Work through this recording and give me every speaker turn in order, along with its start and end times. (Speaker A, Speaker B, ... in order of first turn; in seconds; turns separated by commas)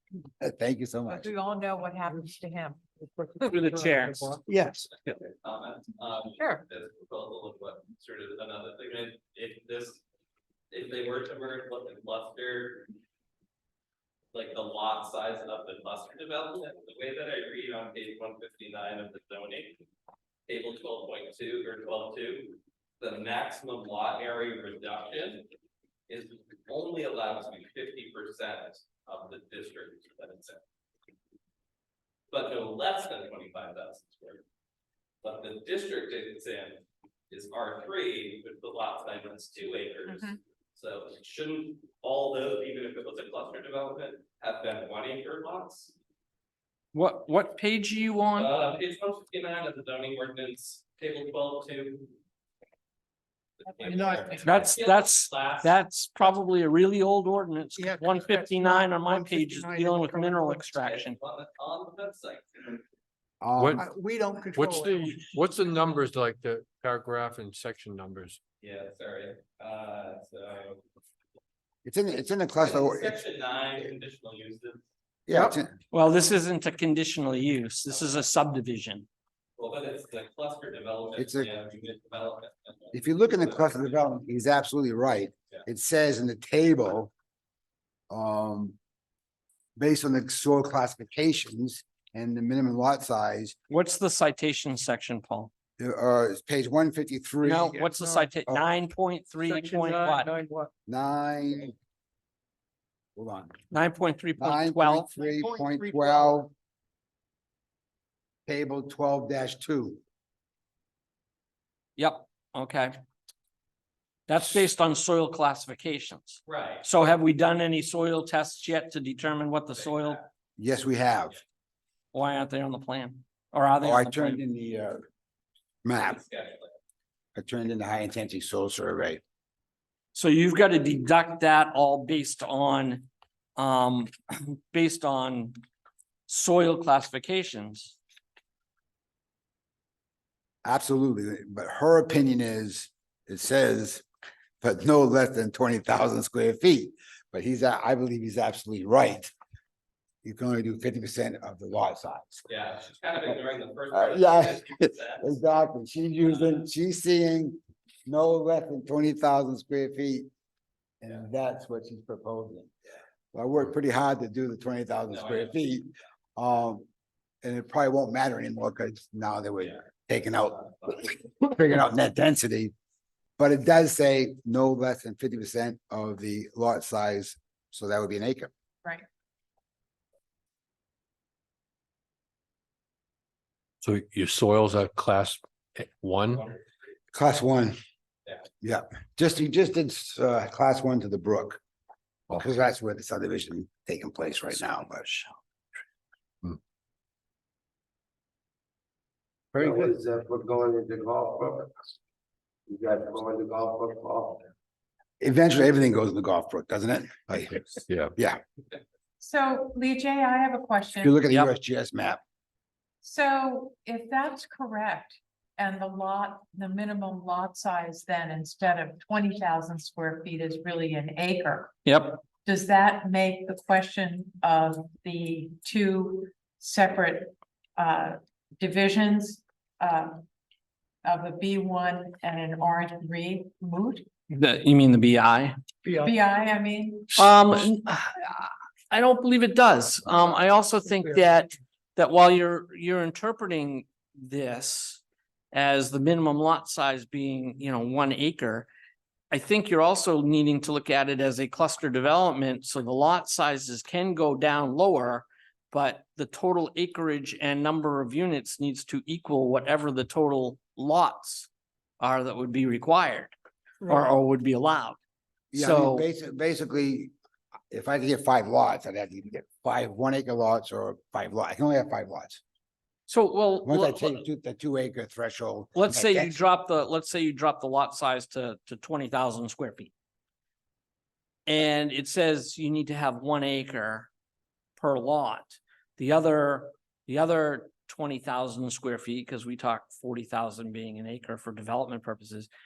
Speaker A: 0.4-1.3, Speaker B: 1.1-2.8, Speaker C: 3.2-4.9, Speaker D: 3.5-4.4, Speaker E: 5.4-10.0, Speaker E: 10.7-12.9, Speaker E: 14.3-19.8, Speaker E: 20.5-25.4, Speaker E: 26.1-30.6, Speaker E: 32.3-34.4, Speaker E: 35.2-45.9, Speaker B: 40.1-40.4, Speaker D: 46.9-48.5, Speaker E: 48.4-52.1, Speaker E: 53.6-55.8, Speaker C: 53.9-54.7, Speaker D: 54.4-61.1, Speaker C: 57.8-61.0, Speaker E: 60.8-62.8, Speaker A: 63.4-63.8, Speaker F: 63.6-63.8, Speaker C: 63.7-65.4, Speaker F: 64.5-68.4, Speaker E: 68.6-70.8, Speaker A: 71.8-73.2, Speaker E: 72.6-74.8, Speaker A: 75.3-75.7, Speaker D: 75.9-79.1, Speaker E: 79.6-83.9, Speaker A: 81.2-81.5, Speaker A: 82.9-87.1, Speaker A: 88.1-88.8, Speaker A: 89.8-93.5, Speaker D: 93.7-95.5, Speaker A: 95.8-97.8, Speaker D: 97.4-100.4, Speaker C: 97.7-98.3, Speaker C: 99.4-100.7, Speaker A: 100.9-101.8, Speaker A: 103.2-103.5, Speaker D: 103.7-105.1, Speaker A: 104.4-106.5, Speaker C: 105.2-106.4, Speaker A: 108.5-110.0, Speaker D: 112.0-112.9, Speaker D: 114.3-120.2, Speaker E: 116.5-116.9, Speaker E: 119.7-120.2, Speaker A: 120.6-121.4, Speaker D: 122.1-124.4, Speaker A: 123.8-125.1, Speaker A: 125.8-126.2, Speaker E: 126.0-126.7, Speaker A: 127.3-129.2, Speaker D: 130.1-135.6, Speaker D: 136.3-138.0, Speaker A: 140.7-144.1, Speaker A: 144.6-149.3, Speaker A: 150.2-152.4, Speaker E: 152.5-155.4, Speaker A: 153.9-160.3, Speaker E: 156.2-156.6, Speaker A: 161.0-162.7, Speaker A: 163.3-166.9, Speaker E: 165.1-165.5, Speaker A: 167.4-172.7, Speaker A: 173.4-178.5, Speaker F: 183.8-186.4, Speaker A: 187.1-187.8, Speaker A: 188.6-191.6, Speaker A: 192.3-195.3, Speaker A: 199.5-199.9, Speaker G: 199.6-201.7, Speaker G: 202.7-204.5, Speaker A: 205.2-208.4, Speaker B: 209.2-211.1, Speaker A: 211.0-212.2, Speaker B: 213.0-221.8, Speaker D: 221.9-222.2, Speaker B: 222.4-230.2, Speaker B: 231.0-234.1, Speaker D: 234.3-235.6, Speaker C: 235.9-236.1, Speaker B: 236.0-237.2, Speaker D: 237.2-248.7, Speaker C: 240.3-241.3, Speaker D: 249.3-261.5, Speaker D: 262.0-263.3, Speaker D: 263.9-265.0, Speaker D: 265.5-266.1, Speaker A: 265.5-267.1, Speaker A: 267.7-272.4, Speaker D: 273.1-274.2, Speaker A: 273.6-276.4, Speaker D: 275.8-279.9, Speaker D: 281.5-284.1, Speaker D: 284.8-292.5